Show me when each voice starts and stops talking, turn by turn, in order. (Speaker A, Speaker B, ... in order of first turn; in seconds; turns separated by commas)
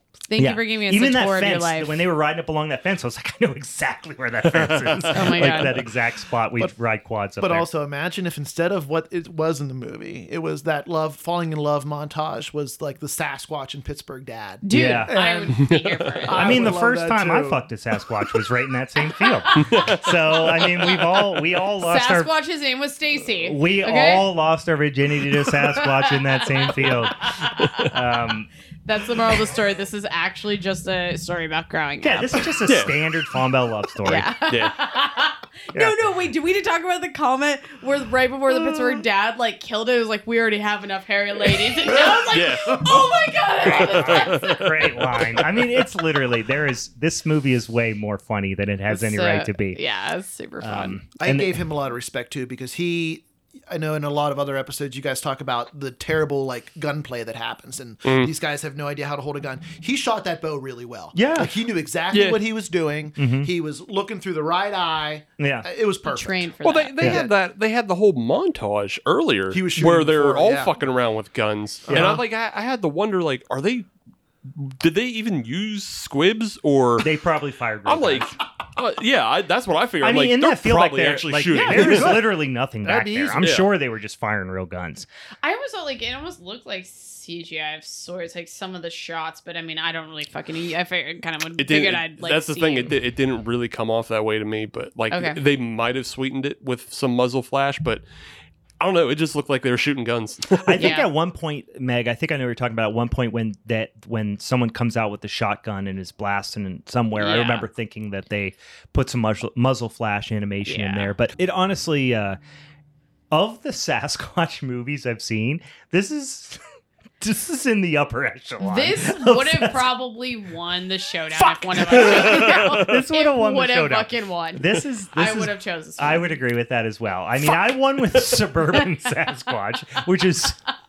Speaker A: 0.3-2.0, Speaker B: 0.4-7.7, Speaker C: 4.5-5.3, Speaker A: 5.1-5.8, Speaker D: 7.4-15.7, Speaker A: 14.6-16.8, Speaker B: 14.7-15.2, Speaker C: 15.5-16.1, Speaker D: 16.3-17.6, Speaker B: 16.3-22.3, Speaker A: 19.1-19.8, Speaker C: 19.5-20.7, Speaker A: 20.6-21.1, Speaker A: 21.8-24.3, Speaker B: 23.4-28.5, Speaker A: 25.7-27.9, Speaker C: 27.6-27.9, Speaker A: 28.9-32.5, Speaker B: 32.0-34.3, Speaker C: 32.6-33.0, Speaker A: 34.0-44.6, Speaker C: 34.5-34.8, Speaker C: 42.3-43.1, Speaker B: 43.6-49.8, Speaker C: 43.6-45.5, Speaker A: 48.9-51.0, Speaker B: 50.6-51.6, Speaker D: 51.2-67.3, Speaker C: 58.0-58.3, Speaker B: 61.1-61.5, Speaker C: 62.1-62.4, Speaker B: 63.2-63.5, Speaker B: 65.4-65.7, Speaker A: 66.0-67.2, Speaker C: 66.6-73.9, Speaker D: 69.5-70.7, Speaker D: 71.9-72.2, Speaker B: 71.9-72.2, Speaker C: 74.5-77.1, Speaker B: 77.0-78.4, Speaker C: 77.9-82.2, Speaker B: 80.0-85.1, Speaker D: 81.5-83.5, Speaker C: 83.4-83.7, Speaker A: 85.4-92.9, Speaker C: 91.6-98.0, Speaker A: 95.1-95.4, Speaker C: 98.8-101.0, Speaker B: 100.6-112.4, Speaker A: 100.8-101.1, Speaker A: 107.2-107.7, Speaker A: 110.7-111.1, Speaker B: 113.3-116.6, Speaker B: 117.2-119.9, Speaker A: 118.6-126.4, Speaker B: 121.4-130.6, Speaker C: 121.9-122.9